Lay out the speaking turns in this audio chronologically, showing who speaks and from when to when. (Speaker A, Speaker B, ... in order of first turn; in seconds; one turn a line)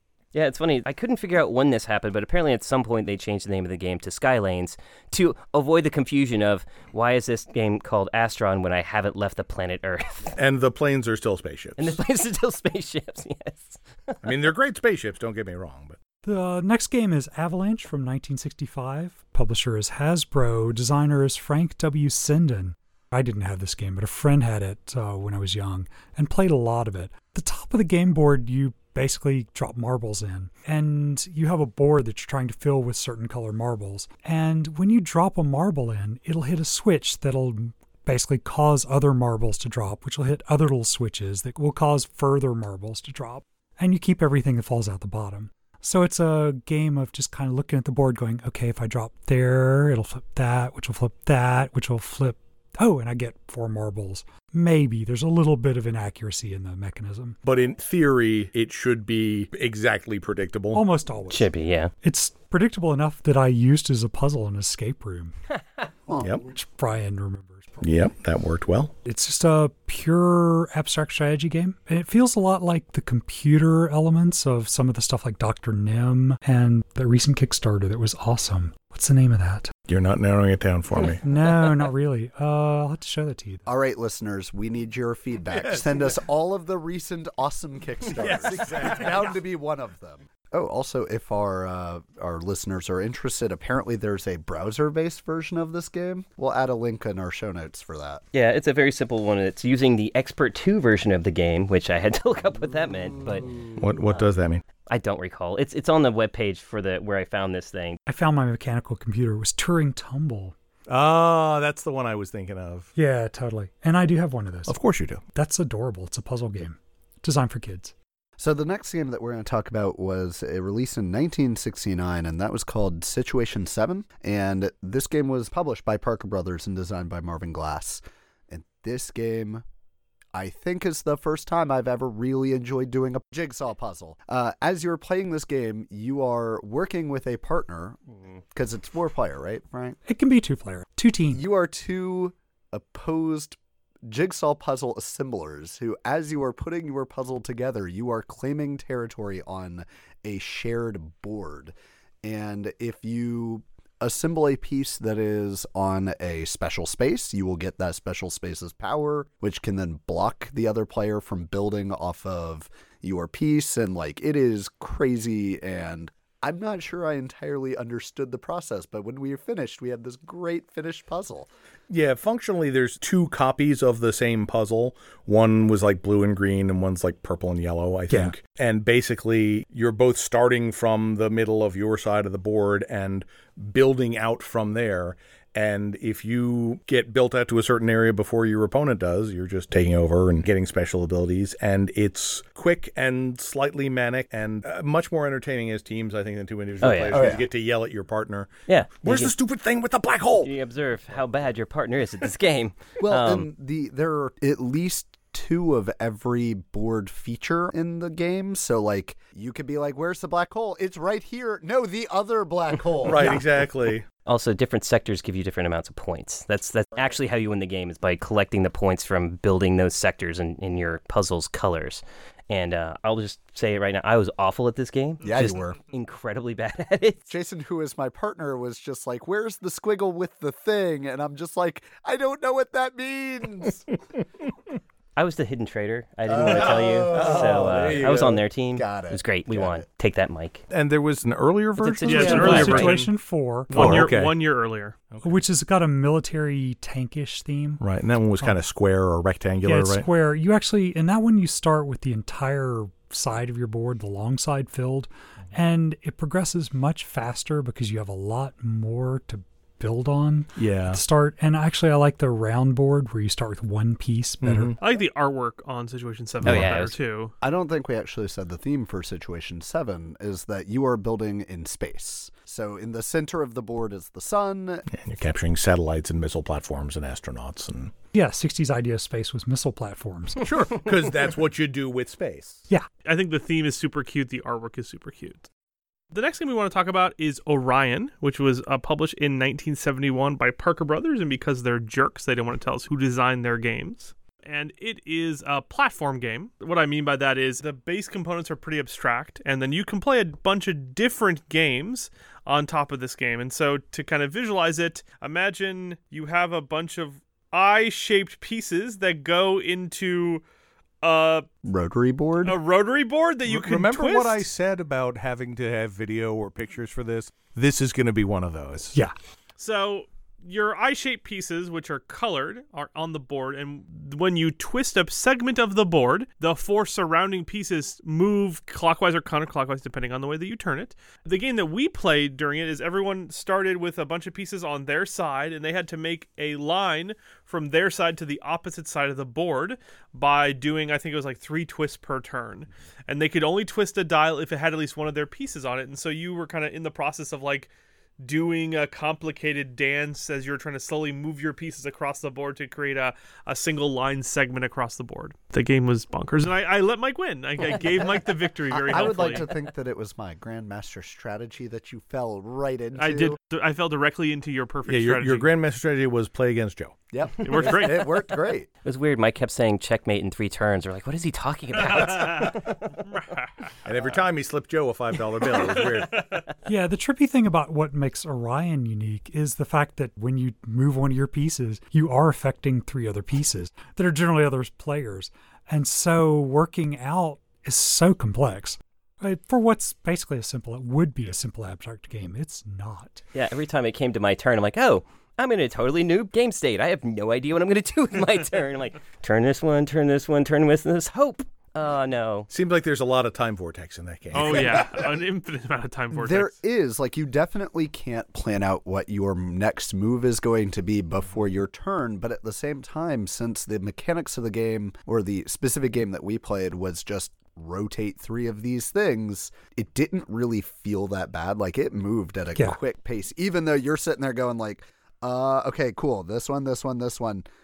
Speaker A: 0.3-10.3
Speaker B: 10.3-12.0
Speaker A: 11.8-14.2
Speaker B: 14.2-16.0
Speaker C: 16.2-57.4
Speaker B: 57.4-60.9
Speaker C: 60.7-61.5
Speaker A: 61.3-61.9
Speaker C: 62.0-65.3
Speaker D: 66.1-66.3
Speaker C: 66.4-67.9
Speaker B: 67.8-68.9
Speaker C: 69.0-79.7
Speaker B: 79.9-81.2
Speaker C: 81.0-83.6
Speaker D: 83.7-98.2
Speaker B: 85.5-86.2
Speaker B: 88.2-89.4
Speaker A: 98.3-104.3
Speaker B: 103.8-104.6
Speaker A: 104.9-108.0
Speaker C: 108.1-110.5
Speaker B: 110.9-112.9
Speaker C: 113.0-114.8
Speaker B: 114.7-115.2
Speaker C: 115.3-117.9
Speaker D: 118.4-129.6
Speaker D: 130.3-138.0
Speaker D: 138.5-140.0
Speaker C: 140.1-141.4
Speaker D: 141.3-171.5
Speaker B: 171.9-198.5
Speaker C: 178.1-178.3
Speaker A: 196.8-197.4
Speaker D: 197.1-197.4
Speaker A: 198.7-199.3
Speaker B: 199.0-200.5
Speaker A: 200.4-203.5
Speaker D: 203.0-213.4
Speaker B: 213.0-214.1
Speaker A: 214.3-227.3
Speaker D: 225.2-225.8
Speaker D: 227.3-233.8
Speaker A: 235.2-240.6
Speaker D: 236.3-239.8
Speaker B: 236.4-238.4
Speaker B: 240.7-242.9
Speaker A: 241.8-242.9
Speaker C: 241.8-244.1
Speaker E: 242.1-243.1
Speaker E: 243.7-245.0
Speaker B: 243.7-244.4
Speaker B: 245.1-245.4
Speaker C: 245.2-247.8
Speaker B: 247.8-250.1
Speaker C: 249.6-264.8
Speaker B: 260.6-261.0
Speaker B: 264.4-264.8
Speaker E: 264.8-267.3
Speaker A: 266.4-266.9
Speaker B: 266.4-266.7
Speaker D: 267.4-274.9
Speaker B: 274.9-277.9
Speaker C: 278.1-280.7
Speaker B: 280.4-282.6
Speaker E: 283.1-285.5
Speaker E: 286.1-310.4
Speaker E: 311.0-311.5
Speaker D: 311.6-312.6
Speaker E: 312.4-314.5
Speaker B: 313.4-319.0
Speaker E: 319.6-359.5
Speaker D: 358.7-363.4
Speaker E: 363.0-365.5
Speaker B: 364.9-367.0
Speaker D: 367.1-368.7
Speaker E: 367.4-368.2
Speaker A: 368.8-372.9
Speaker E: 371.8-373.8
Speaker B: 373.9-376.2
Speaker A: 375.6-375.9
Speaker E: 375.9-376.4
Speaker C: 376.7-393.2
Speaker A: 393.3-402.5
Speaker B: 402.5-405.1
Speaker E: 404.3-406.5
Speaker D: 404.4-404.9
Speaker D: 406.1-427.4